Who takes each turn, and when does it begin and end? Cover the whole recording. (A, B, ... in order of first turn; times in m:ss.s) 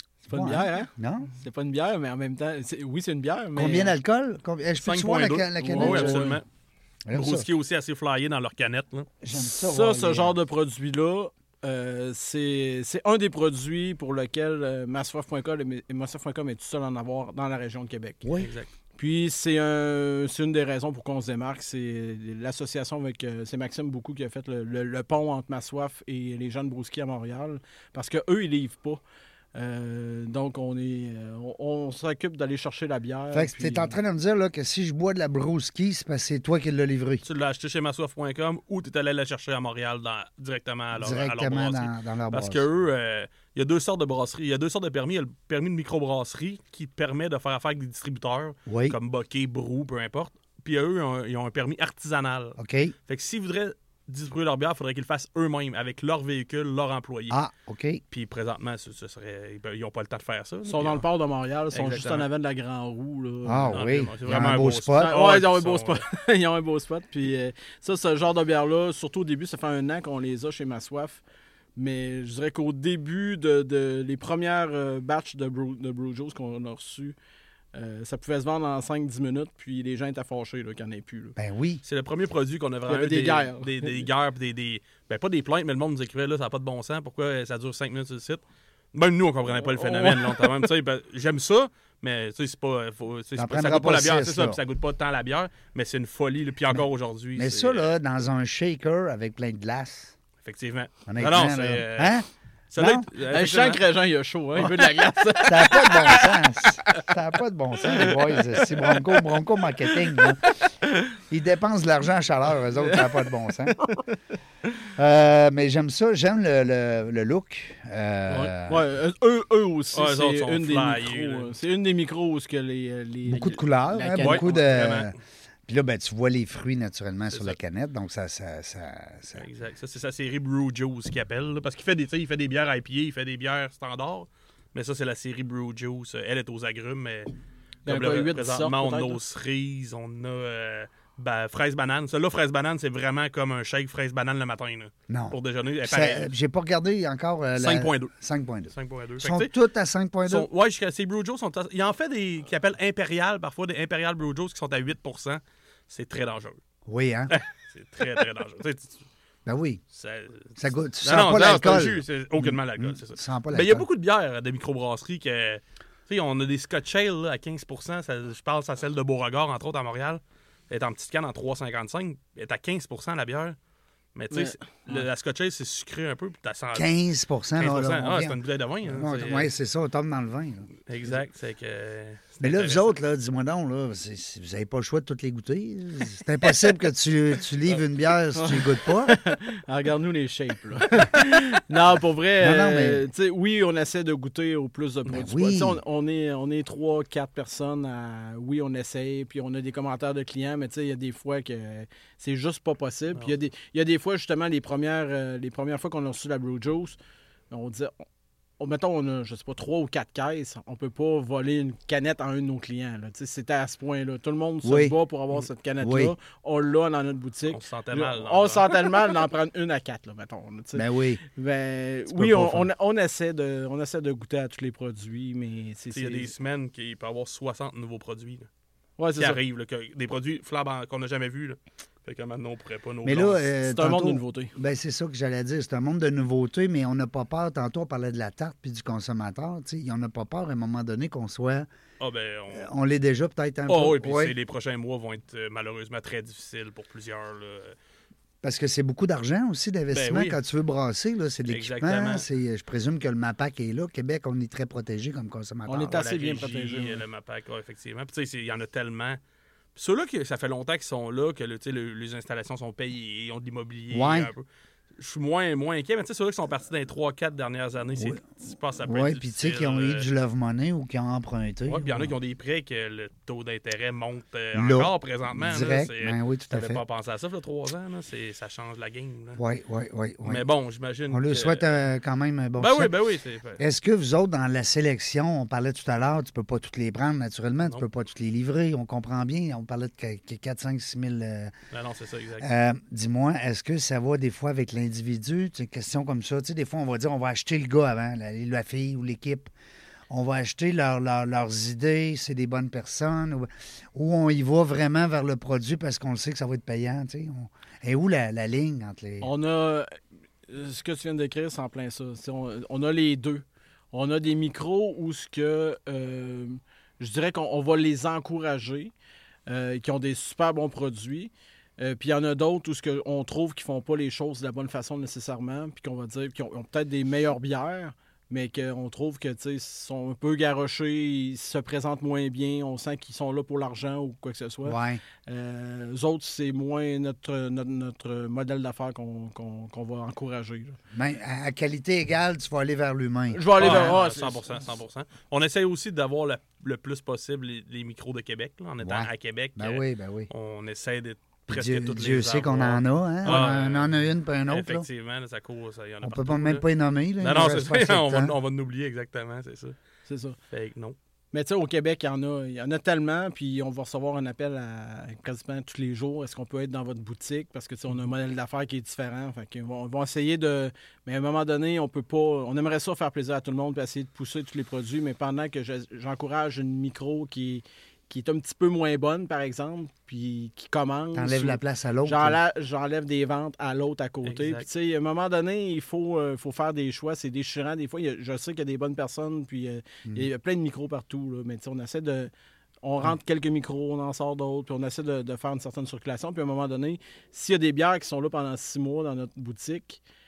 0:00.3-0:03.9 A
0:00.3-0:01.3 B
0:03.6-0:06.4 B
0:04.8-0:06.4 C
0:05.7-0:06.4 A
0:07.1-0:07.5 B
0:07.1-0:09.1 C
0:09.2-0:10.4 B
0:09.5-0:18.2 A
0:18.2-0:18.5 B
0:18.4-0:18.7 C
0:19.0-0:29.0 A
0:29.6-0:34.0 A
0:33.3-0:37.2 B
0:37.2-0:57.4 C
0:41.0-0:42.6 B
0:48.7-0:49.0 B
0:52.6-0:53.0 B
0:57.3-0:58.0 B
0:58.1-1:01.0 C
1:00.7-1:03.8 A
1:01.7-1:02.3 C
1:03.4-1:05.2 B
1:03.7-1:06.0 C
1:05.0-1:11.2 A
1:11.8-1:17.2 A
1:17.7-1:21.4 A
1:21.4-1:21.8 B
1:21.8-1:28.4 C
1:22.9-1:24.0 A
1:28.9-1:37.9 C
1:29.6-1:30.7 A
1:33.4-1:34.6 B
1:37.4-1:40.1 B
1:40.4-1:43.8 C
1:41.1-1:43.1 B
1:43.2-1:46.4 A
1:45.4-1:50.5 B
1:48.0-1:49.0 A
1:49.9-1:50.2 A
1:51.3-1:53.8 B
1:52.8-1:53.1 A
1:53.8-1:54.1 A
1:55.0-1:58.8 B
1:58.3-2:04.7 A
1:59.9-2:01.5 C
2:03.3-2:05.2 B
2:04.2-2:05.2 C
2:05.7-2:09.5 B
2:09.4-2:17.3 C
2:17.9-2:19.2 A
2:17.9-2:26.3 C
2:25.1-2:30.5 B
2:27.6-2:28.1 C
2:28.7-2:29.5 C
2:30.3-2:36.6 C
2:36.9-2:37.4 B
2:37.3-2:39.0 C
2:39.5-2:39.8 B
2:39.9-2:53.6 C
2:40.6-2:43.9 B
2:54.2-2:56.9 C
2:54.3-2:55.0 A
2:56.8-3:00.7 B
2:57.6-2:59.5 C
3:00.9-3:02.9 C
3:02.4-3:09.2 B
3:08.3-3:27.0 A
3:12.4-3:13.0 B
3:15.1-3:15.8 B
3:27.5-3:27.9 A
3:28.6-3:46.3 A
3:34.6-3:35.0 B
3:35.8-3:36.2 B
3:37.5-3:38.8 C
3:40.8-3:41.2 B
3:42.1-3:42.7 B
3:45.9-3:48.5 C
3:49.0-3:49.4 A
3:49.2-3:53.4 C
3:53.0-4:01.7 B
3:53.6-3:54.5 A
4:02.0-4:02.7 C
4:02.5-4:04.4 B
4:03.7-4:07.8 C
4:08.4-4:16.0 B
4:09.9-4:10.4 C
4:11.5-4:12.3 C
4:15.7-4:17.0 A
4:15.9-4:19.2 C
4:19.8-4:24.4 C
4:23.9-4:24.3 B
4:25.0-4:30.1 C
4:28.8-4:32.1 B
4:31.7-4:39.4 C
4:34.5-4:36.8 B
4:39.4-4:40.4 B
4:40.2-4:41.6 C
4:41.1-4:42.9 B
4:42.6-4:43.6 C
4:43.6-4:51.5 B
4:51.7-4:52.5 C
4:52.4-4:59.5 B
5:00.1-5:09.3 B
5:09.2-5:18.9 A
5:19.5-5:40.8 A
5:34.6-5:35.0 B
5:40.9-5:44.0 B
5:43.3-5:44.5 A
5:43.6-5:56.6 C
5:48.8-5:50.3 B
5:51.5-5:54.9 B
5:56.0-5:58.4 B
5:57.2-5:59.8 C
6:00.1-6:00.4 A
6:00.5-6:01.0 C
6:01.3-6:32.3 A
6:21.1-6:22.4 B
6:24.2-6:24.7 C
6:32.8-6:40.0 A